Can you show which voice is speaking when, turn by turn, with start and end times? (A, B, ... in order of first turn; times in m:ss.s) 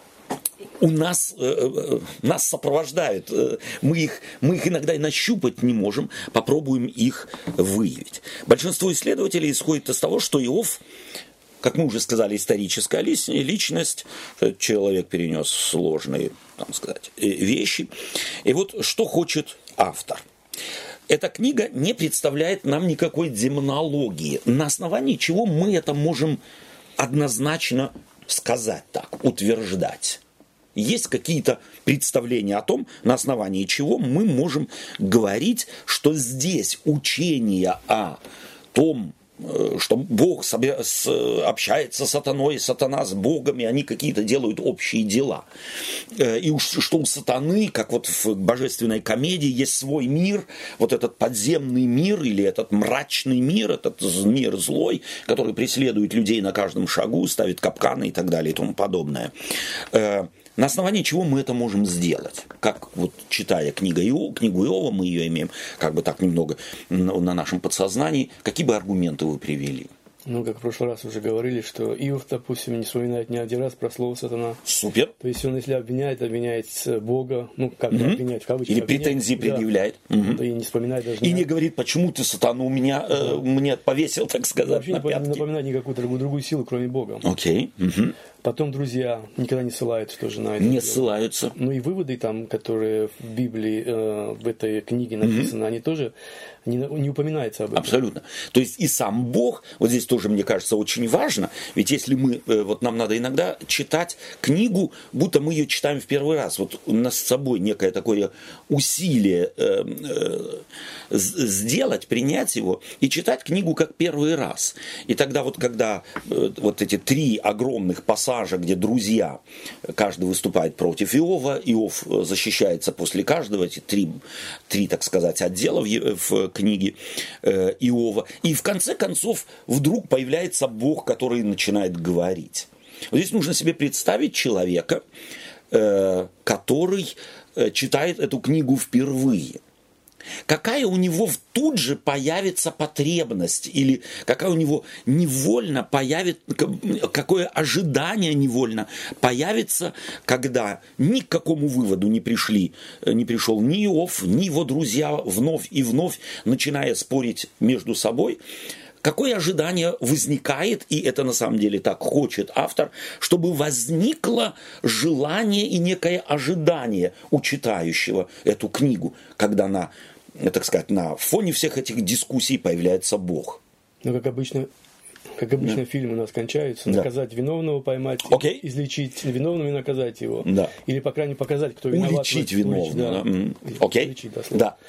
0:00.8-0:10.8 A
0:11.6-0:20.2 A
0:21.1-0:26.4 A
0:27.0-0:30.2 A
0:30.8-0:38.2 A
0:38.7-0:45.5 A
0:46.1-0:59.3 A
0:59.9-1:09.9 A
1:10.2-1:14.6 B
1:14.6-1:15.1 A
1:15.2-1:19.7 B
1:17.9-1:20.4 A
1:20.3-1:21.5 B
1:21.2-1:25.4 A
1:23.2-1:23.4 B
1:24.6-1:27.3 B
1:27.2-1:28.2 A
1:28.4-1:36.1 B
1:30.6-1:31.5 A
1:35.2-1:35.5 A
1:36.6-1:38.0 B
1:37.8-1:59.4 A
2:00.0-2:15.0 A
2:15.7-2:19.6 A
2:20.5-2:38.4 A
2:39.0-2:53.6 A
2:54.0-2:54.7 B
2:55.4-3:04.7 B
2:58.3-2:58.6 A
3:00.4-3:00.7 A
3:01.9-3:04.8 A